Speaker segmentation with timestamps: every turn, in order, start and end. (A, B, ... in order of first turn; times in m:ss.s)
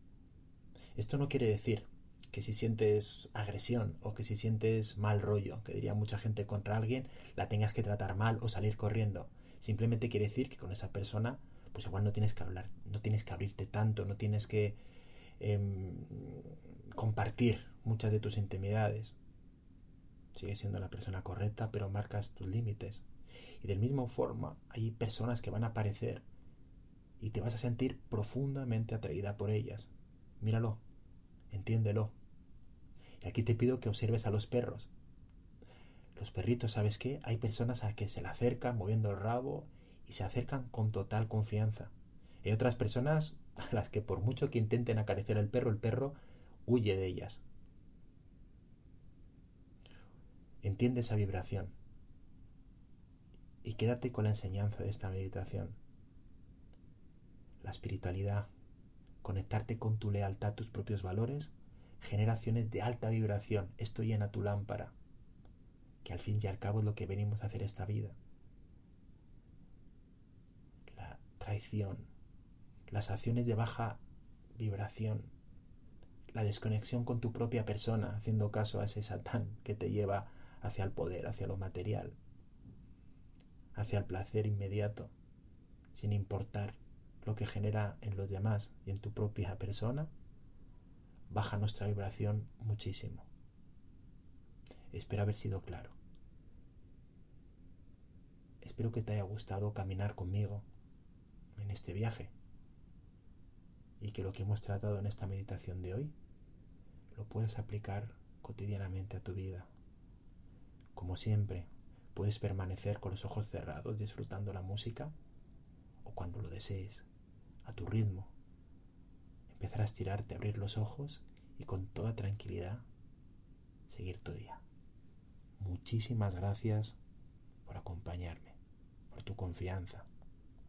0:01.0-0:14.8 A
0:15.4-0:19.2 A
0:20.3-0:23.1 A
0:23.6-0:26.2 A
0:27.2-0:30.8 A
0:31.5-0:32.1 A
0:33.2-0:34.9 A
0:36.2-0:41.9 A
0:42.4-0:47.4 A
0:50.6-0:51.7 A
0:53.6-0:55.8 A
0:57.6-0:58.5 A
0:59.2-1:04.9 A
1:06.0-1:08.2 A
1:10.9-1:12.1 A
1:12.9-1:14.0 A
1:14.5-1:15.3 A
1:16.3-1:22.2 A
1:23.7-1:25.1 A
1:25.9-1:30.1 A
1:31.3-1:33.3 A
1:34.9-1:36.0 A
1:38.6-1:40.6 A
1:41.6-1:42.3 A
1:44.0-1:46.1 A
1:47.1-1:49.7 A
1:50.9-1:55.1 A
1:56.0-1:57.1 A
1:57.6-1:58.3 A
1:59.5-2:02.8 A
2:03.9-2:04.6 A
2:05.6-2:07.0 A
2:07.6-2:08.6 A
2:09.1-2:10.1 A